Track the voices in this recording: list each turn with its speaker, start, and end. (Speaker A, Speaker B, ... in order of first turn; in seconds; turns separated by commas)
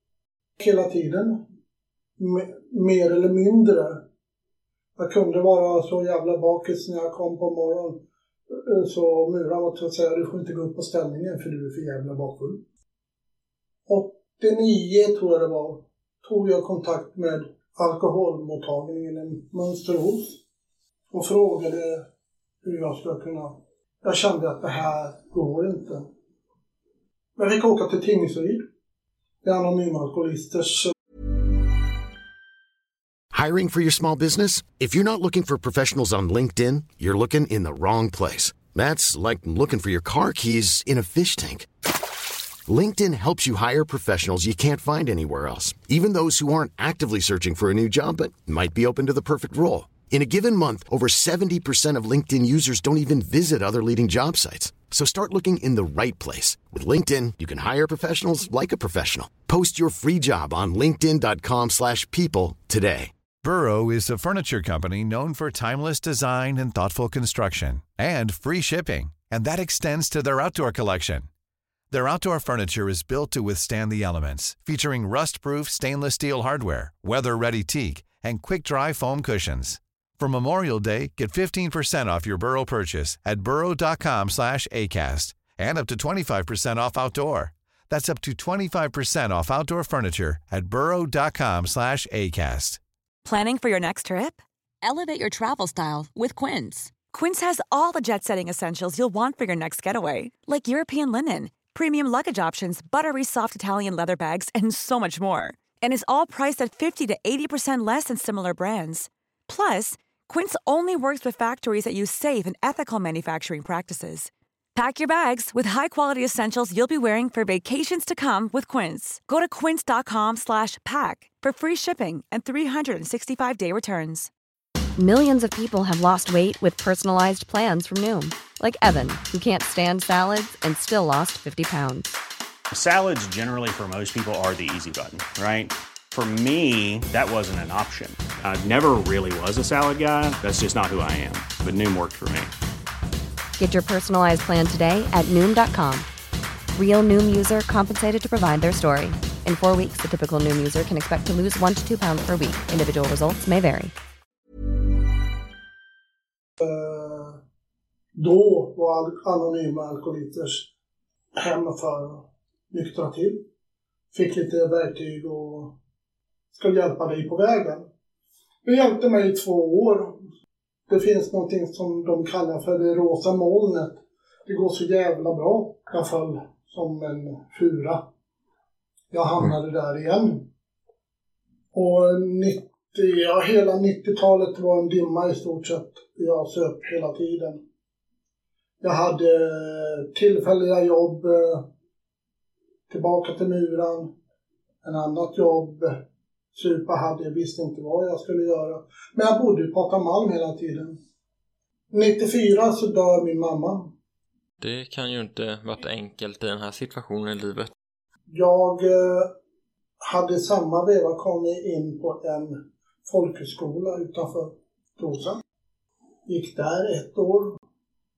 Speaker A: 0.6-1.4, Speaker A: 2.2-4.0, Speaker A: 5.0-12.6, Speaker A: 13.9-20.4, Speaker A: 21.1-22.1, Speaker A: 22.6-26.1, Speaker A: 27.4-28.6, Speaker A: 29.4-30.9, Speaker B: 33.3-41.7, Speaker B: 42.7-63.1, Speaker C: 63.4-71.3, Speaker C: 71.9-92.8, Speaker D: 93.2-124.3, Speaker E: 125.0-132.1, Speaker F: 132.7-142.5, Speaker E: 143.6-146.1, Speaker E: 146.7-153.9, Speaker A: 156.6-157.4, Speaker A: 158.2-160.7, Speaker A: 161.4-163.4, Speaker A: 164.1-165.8, Speaker A: 166.5-167.8, Speaker A: 168.6-170.2, Speaker A: 170.9-178.1, Speaker A: 179.1-180.5, Speaker A: 181.7-187.6, Speaker A: 188.8-191.7, Speaker A: 192.9-194.1, Speaker A: 194.8-196.0, Speaker A: 196.5-201.0, Speaker A: 201.9-203.9, Speaker G: 204.6-207.7, Speaker A: 208.3-209.3, Speaker A: 210.0-215.4, Speaker A: 216.3-217.6